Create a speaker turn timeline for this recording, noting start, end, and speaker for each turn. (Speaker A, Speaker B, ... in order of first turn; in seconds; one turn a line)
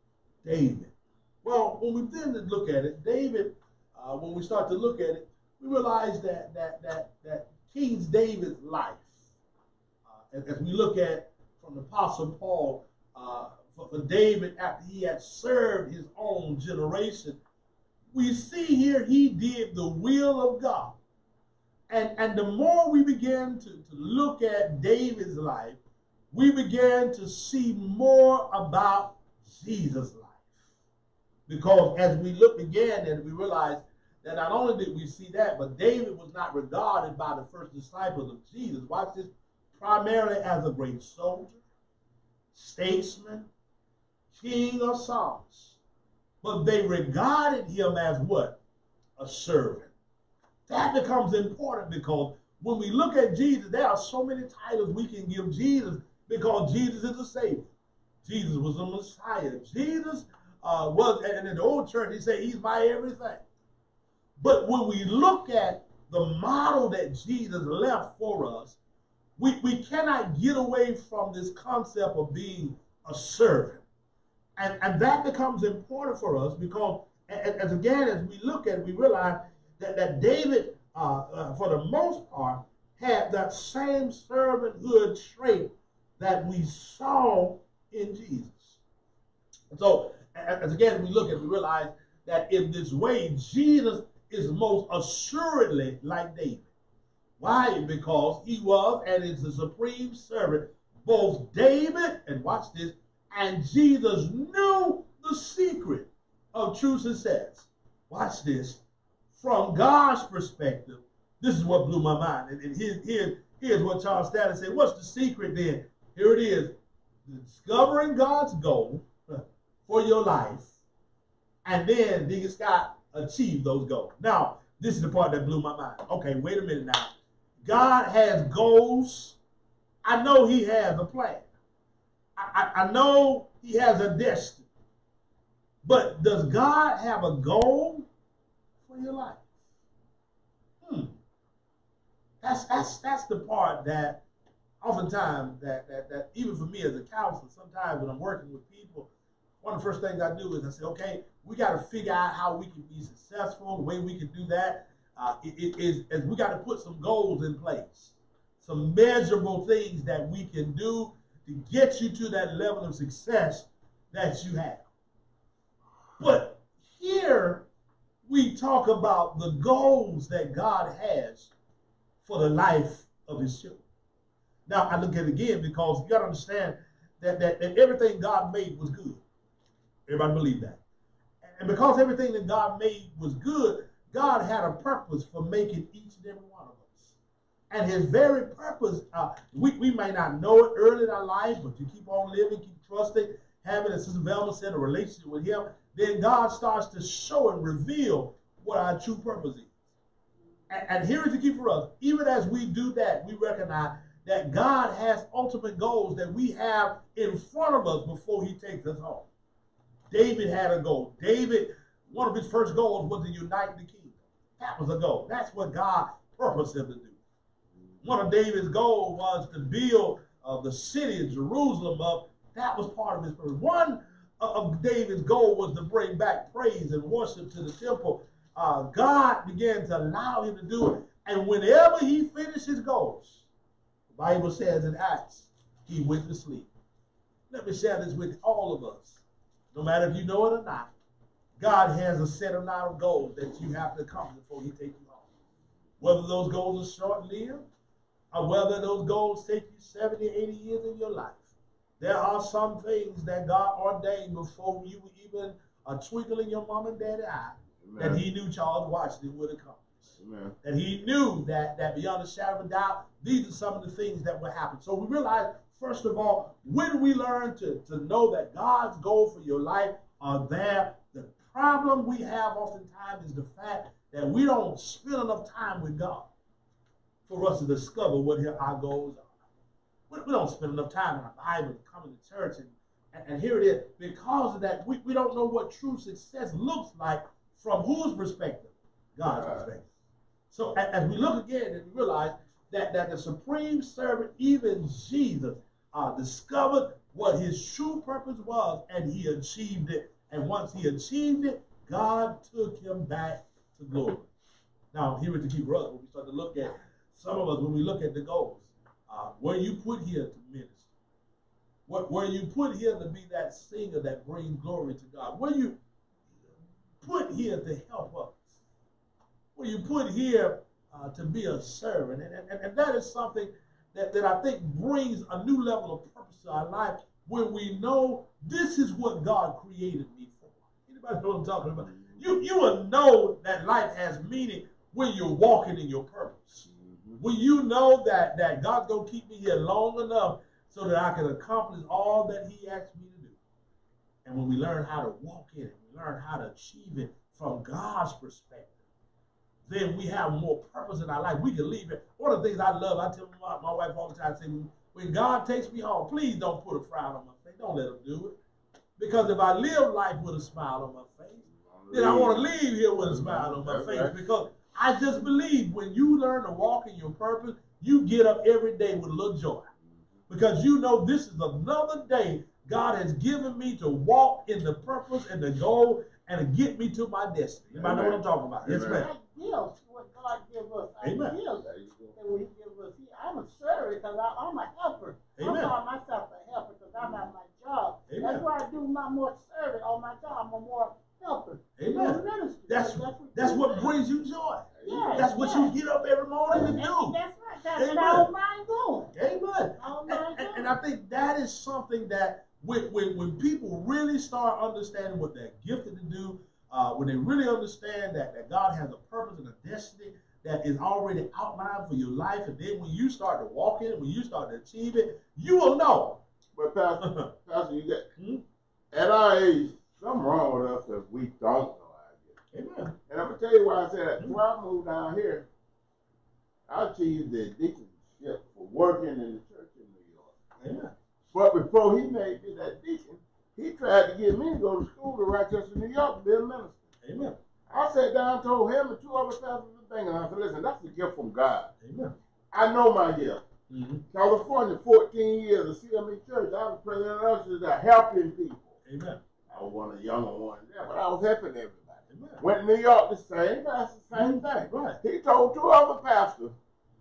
Speaker A: 0.4-9.1
Speaker A: 10.1-17.4
Speaker A: 18.1-21.0
Speaker A: 21.9-25.8
Speaker A: 26.3-30.4
Speaker A: 31.5-41.6
Speaker A: 42.5-43.5
Speaker A: 44.3-45.8
Speaker A: 46.4-48.6
Speaker A: 49.2-49.9
Speaker A: 50.7-57.7
Speaker A: 58.2-63.4
Speaker A: 64.4-68.8
Speaker A: 69.4-73.8
Speaker A: 74.5-88.8
Speaker A: 89.7-96.7
Speaker A: 97.4-108.8
Speaker A: 109.3-120.7
Speaker A: 121.6-129.4
Speaker A: 130.0-131.5
Speaker A: 132.3-134.7
Speaker A: 135.8-138.1
Speaker A: 138.8-139.4
Speaker A: 140.8-141.2
Speaker A: 142.4-144.2
Speaker A: 144.8-149.1
Speaker A: 149.6-164.9
Speaker A: 166.2-167.7
Speaker A: 168.2-171.5
Speaker A: 172.2-173.8
Speaker A: 174.7-179.2
Speaker A: 180.1-180.8
Speaker A: 181.4-187.2
Speaker A: 187.7-199.7
Speaker A: 200.7-209.3
Speaker A: 210.1-217.2
Speaker A: 218.0-233.4
Speaker A: 234.1-236.7
Speaker A: 237.5-240.9
Speaker A: 241.6-245.2
Speaker A: 246.0-247.6
Speaker A: 248.3-276.3
Speaker B: 257.8-258.2
Speaker B: 260.2-260.6
Speaker A: 277.3-279.3
Speaker A: 280.1-289.9
Speaker B: 289.2-289.7
Speaker A: 290.5-304.3
Speaker A: 304.9-310.8
Speaker A: 311.9-315.8
Speaker A: 317.0-318.4
Speaker A: 319.5-336.7
Speaker B: 331.9-332.2
Speaker B: 336.7-337.2
Speaker A: 337.2-343.4
Speaker A: 344.2-348.7
Speaker A: 349.7-358.4
Speaker A: 359.0-369.7
Speaker B: 361.5-364.1
Speaker A: 370.3-379.1
Speaker B: 377.7-379.0
Speaker C: 378.7-393.9
Speaker A: 381.0-381.3
Speaker B: 381.6-382.1
Speaker A: 385.4-385.7
Speaker A: 388.1-388.4
Speaker A: 391.8-397.2
Speaker B: 394.7-395.2
Speaker C: 394.8-395.7
Speaker C: 396.5-399.1
Speaker A: 397.7-398.3
Speaker A: 399.1-416.2
Speaker C: 399.8-400.7
Speaker B: 416.5-418.1
Speaker A: 417.0-417.3
Speaker A: 418.2-418.4
Speaker B: 418.9-422.3
Speaker A: 422.5-422.9
Speaker B: 423.1-425.5
Speaker B: 426.7-430.3
Speaker A: 430.6-430.9
Speaker B: 431.3-436.8
Speaker A: 437.0-437.4
Speaker B: 437.7-441.7
Speaker A: 441.8-442.1
Speaker B: 442.5-443.4
Speaker A: 443.7-444.0
Speaker B: 444.1-448.7
Speaker A: 448.9-449.2
Speaker B: 449.5-456.5
Speaker A: 452.1-452.4
Speaker A: 454.1-455.0